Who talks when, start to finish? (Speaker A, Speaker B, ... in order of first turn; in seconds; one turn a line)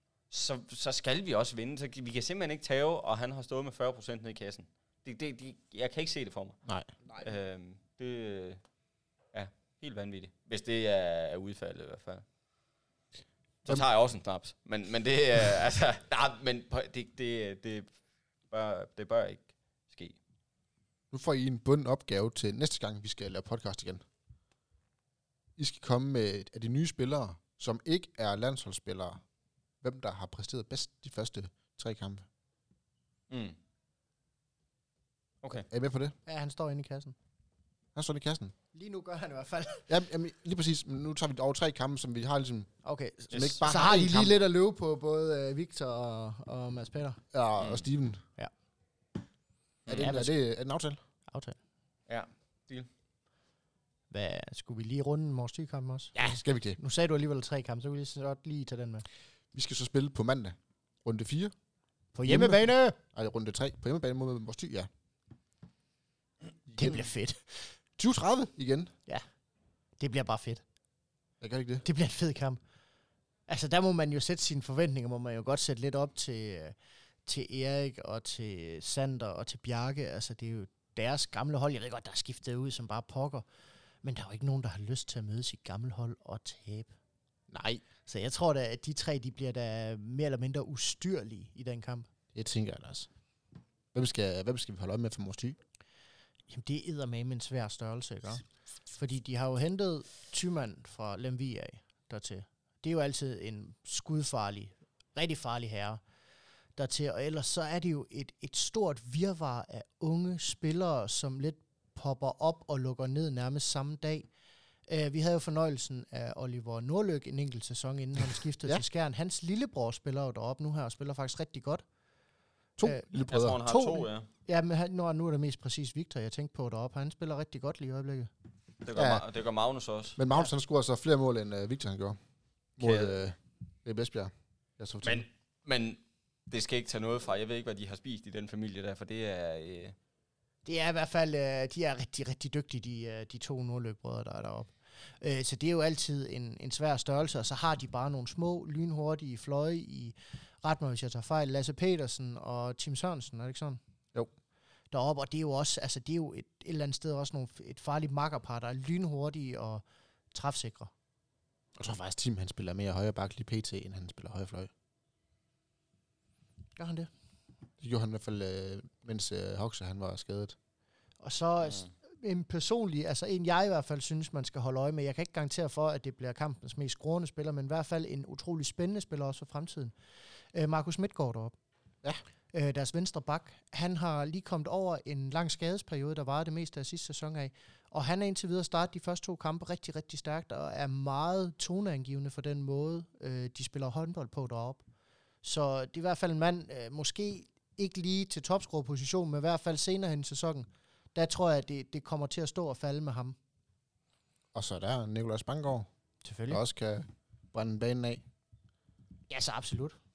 Speaker A: 0.3-6.6
Speaker A: 7.1-8.6
Speaker A: 9.3-12.2
Speaker A: 13.6-17.9
Speaker A: 18.5-20.1
Speaker B: 21.1-24.0
Speaker B: 25.6-29.2
Speaker B: 29.8-32.2
Speaker A: 33.3-33.6
Speaker A: 35.4-35.7
Speaker B: 35.7-36.1
Speaker C: 36.2-37.1
Speaker B: 37.9-38.5
Speaker C: 38.7-39.9
Speaker B: 39.9-42.7
Speaker C: 42.8-47.2
Speaker A: 43.3-43.6
Speaker B: 43.3-44.3
Speaker B: 47.3-48.2
Speaker A: 47.6-47.9
Speaker A: 49.9-50.1
Speaker B: 49.9-51.0
Speaker C: 50.0-50.3
Speaker C: 51.3-51.6
Speaker A: 52.1-52.9
Speaker C: 54.1-59.0
Speaker B: 56.1-56.8
Speaker B: 59.5-61.5
Speaker C: 62.1-63.0
Speaker B: 62.3-64.9
Speaker B: 66.7-67.0
Speaker C: 66.8-67.7
Speaker B: 68.0-68.9
Speaker C: 70.0-70.6
Speaker B: 71.4-71.8
Speaker C: 71.8-72.6
Speaker C: 73.5-76.7
Speaker C: 77.2-83.5
Speaker C: 84.0-86.9
Speaker B: 87.5-87.8
Speaker C: 88.0-92.1
Speaker B: 92.3-93.1
Speaker B: 93.9-95.6
Speaker C: 96.5-106.0
Speaker C: 106.8-114.3
Speaker C: 114.9-121.8
Speaker B: 122.8-123.6
Speaker C: 122.8-123.1
Speaker A: 123.3-124.3
Speaker C: 123.6-128.3
Speaker A: 128.8-130.2
Speaker B: 128.9-129.2
Speaker B: 130.2-132.2
Speaker B: 132.8-135.2
Speaker A: 132.8-133.2
Speaker A: 135.0-139.9
Speaker C: 140.6-153.8
Speaker C: 154.9-159.8
Speaker C: 160.3-160.9
Speaker B: 161.8-164.7
Speaker C: 166.8-167.1
Speaker B: 167.8-170.6
Speaker C: 171.2-179.9
Speaker C: 180.5-181.5
Speaker C: 182.5-194.8
Speaker C: 195.4-203.4
Speaker B: 204.5-205.9
Speaker C: 206.2-206.6
Speaker B: 206.5-208.2
Speaker C: 209.3-210.0